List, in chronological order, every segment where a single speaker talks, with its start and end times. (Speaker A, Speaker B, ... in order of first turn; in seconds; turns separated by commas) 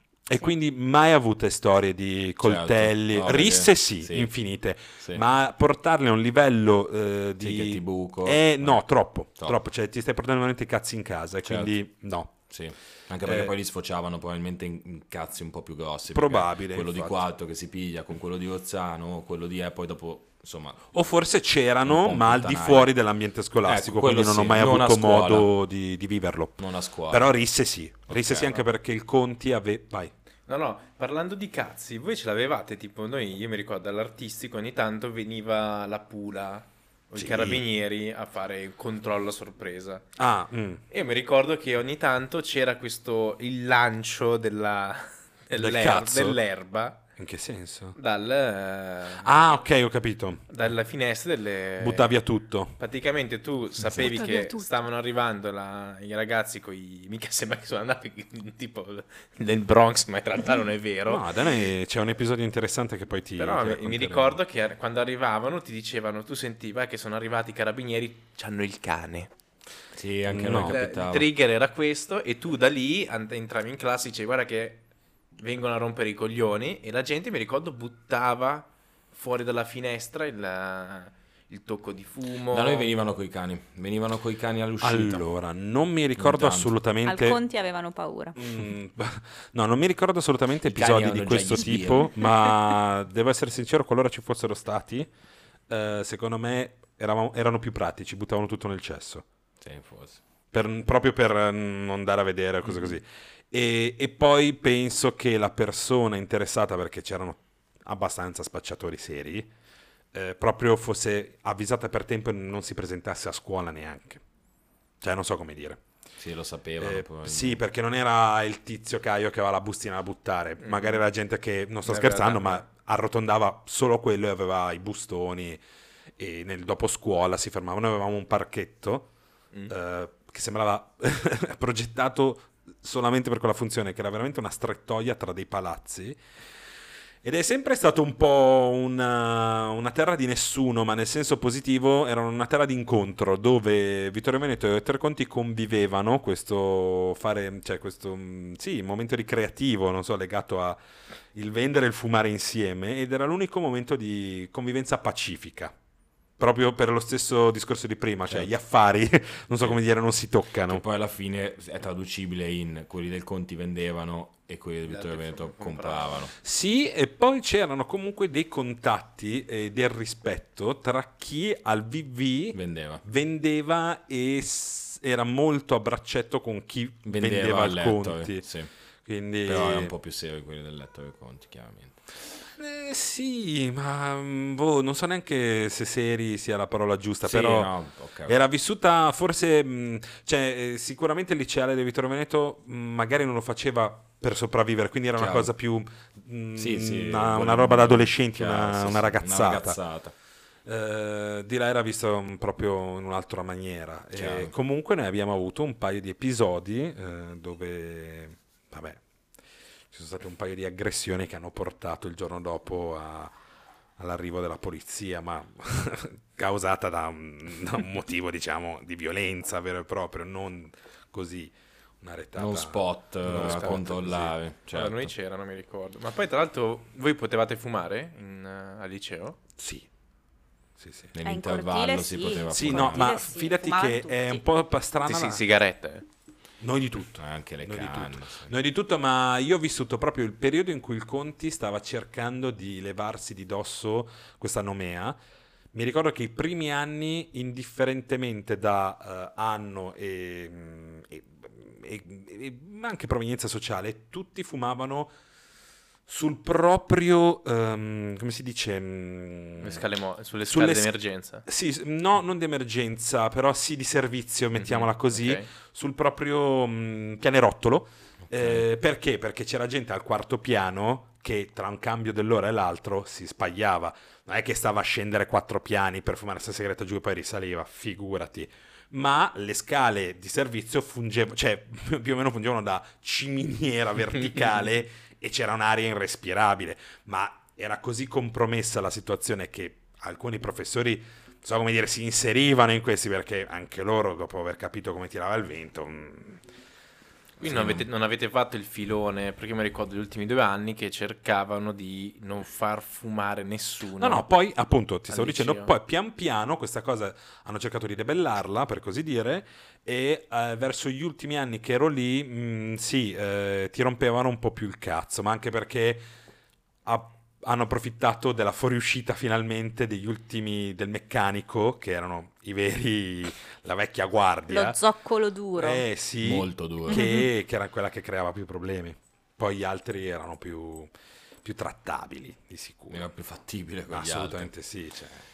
Speaker A: 0.3-12.5, Speaker B: 2.4-4.3, Speaker B: 7.4-9.6, Speaker B: 11.4-11.7, Speaker B: 12.5-20.9, Speaker A: 13.2-13.5, Speaker A: 16.1-17.2, Speaker A: 20.9-30.1, Speaker B: 21.8-22.9, Speaker B: 23.6-25.5, Speaker B: 26.6-27.3, Speaker B: 28.1-28.6, Speaker C: 30.5-40.0, Speaker A: 37.1-37.6, Speaker A: 40.1-40.8, Speaker C: 40.9-47.0, Speaker A: 45.5-46.4, Speaker A: 47.2-48.0, Speaker C: 47.9-49.4, Speaker A: 49.2-50.5, Speaker C: 50.5-52.2, Speaker A: 51.8-52.8, Speaker C: 52.8-61.3, Speaker A: 53.8-54.1, Speaker D: 54.3-54.5, Speaker A: 61.0-64.4, Speaker C: 63.4-69.3, Speaker B: 69.9-71.3, Speaker A: 70.3-70.7, Speaker C: 70.5-74.8, Speaker C: 75.4-82.9, Speaker B: 82.5-85.2, Speaker A: 84.8-87.4, Speaker B: 86.2-86.8, Speaker D: 87.0-88.3, Speaker A: 88.3-95.1, Speaker B: 90.6-92.1, Speaker A: 95.7-99.2, Speaker B: 99.6-100.2, Speaker A: 100.5-109.5, Speaker B: 102.6-103.0, Speaker A: 110.1-114.2, Speaker A: 115.0-115.8, Speaker B: 116.2-117.6, Speaker A: 116.8-125.6, Speaker C: 120.6-121.0, Speaker C: 121.8-122.6, Speaker A: 126.2-129.1, Speaker A: 129.7-136.2, Speaker A: 137.2-150.8, Speaker A: 151.3-155.7, Speaker A: 156.4-160.8, Speaker B: 158.3-158.5, Speaker B: 160.6-166.3, Speaker C: 164.9-166.2, Speaker A: 166.3-178.4, Speaker B: 172.5-173.0, Speaker B: 177.0-178.7, Speaker A: 179.0-179.9, Speaker B: 179.4-182.1, Speaker A: 182.6-187.7, Speaker B: 187.2-188.3, Speaker A: 188.2-199.8, Speaker B: 195.2-195.5, Speaker B: 196.5-200.1, Speaker A: 200.7-209.0, Speaker B: 204.1-204.5, Speaker A: 209.9-213.3, Speaker A: 214.0-224.3, Speaker B: 222.3-225.1, Speaker C: 224.7-229.4, Speaker A: 229.6-229.9, Speaker A: 230.8-231.1, Speaker B: 231.1-233.2, Speaker D: 231.2-234.4, Speaker A: 232.5-235.4, Speaker C: 235.0-236.1, Speaker A: 236.6-245.2, Speaker B: 237.2-238.5, Speaker A: 245.7-255.1, Speaker A: 256.1-259.8, Speaker C: 259.6-261.4, Speaker A: 260.5-296.4, Speaker C: 264.6-265.5, Speaker B: 268.3-268.6, Speaker C: 297.4-304.3, Speaker B: 297.4-297.8, Speaker A: 304.0-316.0, Speaker C: 305.1-305.7, Speaker A: 316.9-324.8, Speaker D: 324.5-325.8, Speaker A: 325.5-333.1, Speaker B: 326.2-327.1, Speaker B: 332.9-334.5, Speaker A: 333.9-335.2